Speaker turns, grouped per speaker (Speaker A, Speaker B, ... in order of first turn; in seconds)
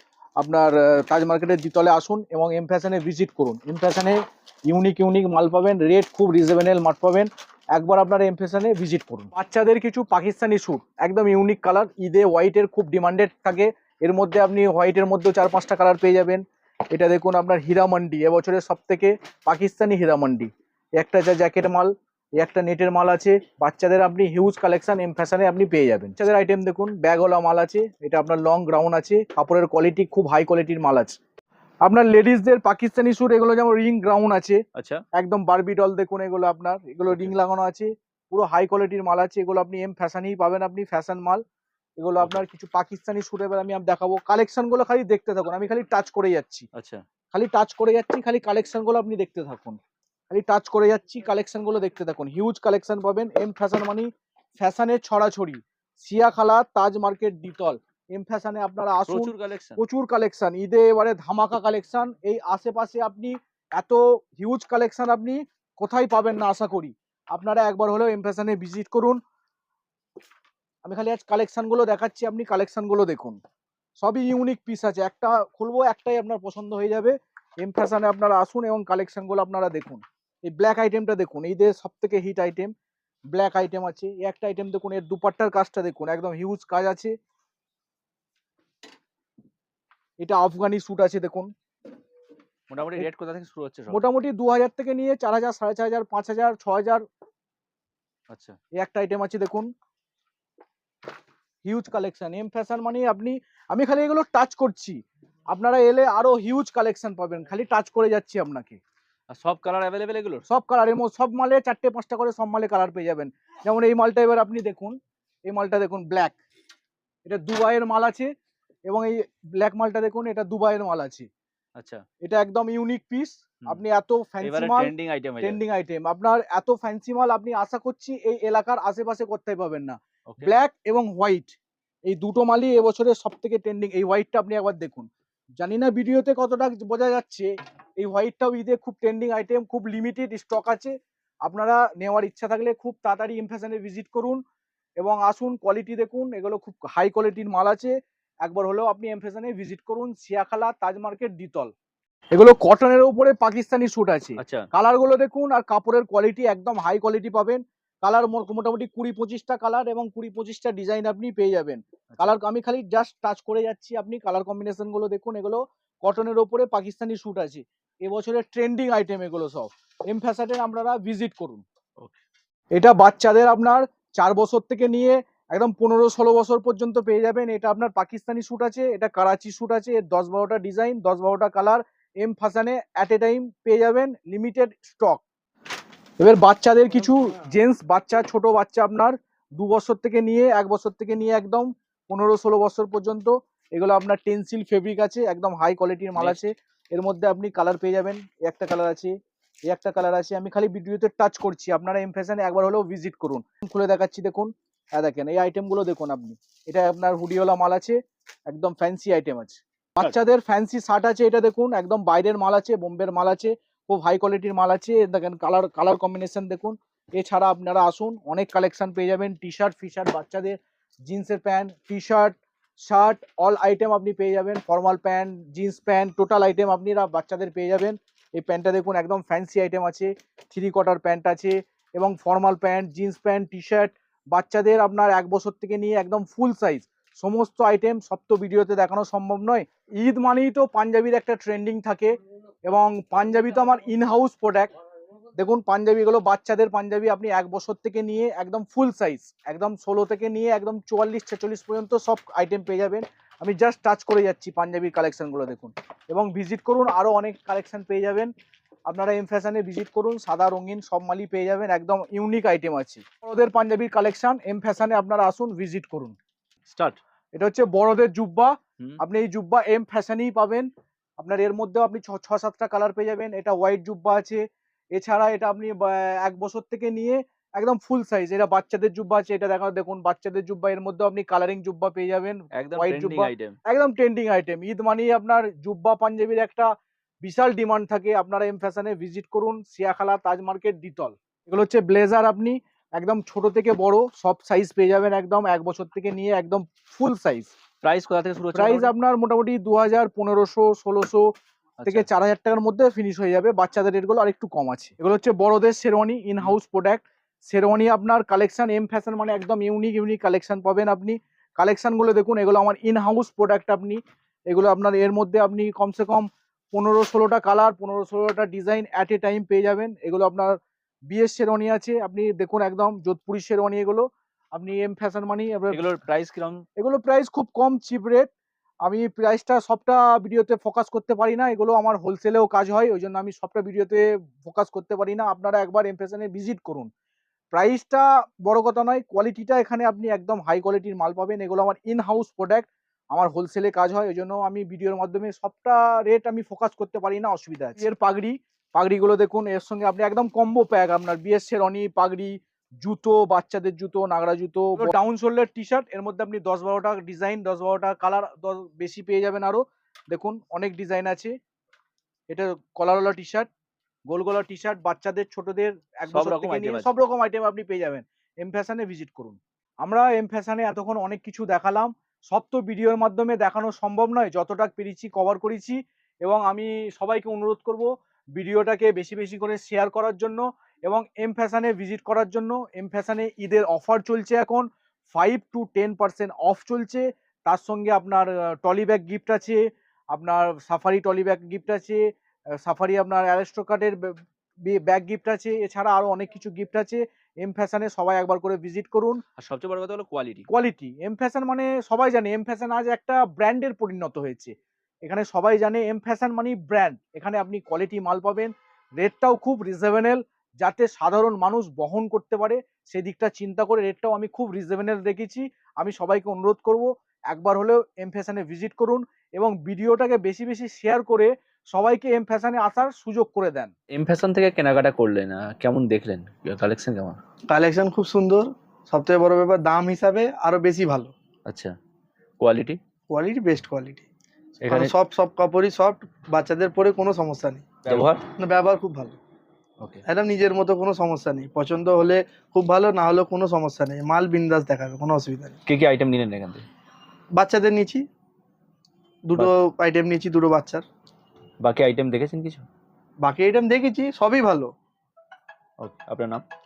Speaker A: 0.4-31.2, 31.8-34.6, 35.1-41.4, 42.0-46.6, 47.3-49.8, 50.3-69.2, 70.8-73.4, 74.0-82.7, 83.3-87.1, 90.2-91.5, 93.9-97.0, 98.8-99.7, 101.6-108.8, 110.5-115.0, 115.5-116.4, 117.2-118.3, 118.9-121.3, 122.2-131.5, 132.1-135.1, 135.6-140.9, 141.4-144.4, 145.0-151.7, 152.3-171.6, 172.7-185.2, 186.2-199.1, 199.7-242.1, 242.7-244.7, 245.4-258.3, 258.9-266.1, 267.3-270.7, 271.2-274.4, 274.9-286.7, 287.2-297.5, 298.5-301.3, 301.9-320.6, 321.1-325.9, 326.8-328.3, 328.8-336.9, 337.5-361.3, 362.3-363.5, 364.1-389.6, 390.1-392.0, 392.6-394.1, 394.6-399.2, 400.5-404.5, 405.1-423.7
Speaker B: 34.7-35.0, 46.7-47.0, 59.1-59.8, 92.7-94.0, 98.3-98.6, 109.3-110.4, 121.8-122.0, 124.4-125.6, 154.4-154.7, 196.2-196.4, 266.7-267.0, 282.6-283.6, 297.8-298.9, 301.8-302.1, 325.7-326.6, 366.1-366.9, 399.4-400.5, 423.9-427.2, 431.5-431.7, 432.4-432.8, 434.6-434.9, 437.8-438.2, 445.6-446.6, 451.6-452.6, 455.8-456.4
Speaker C: 427.5-431.1, 433.1-434.1, 434.7-439.2, 440.0-445.6, 447.3-448.1, 449.3-450.8, 453.2-454.7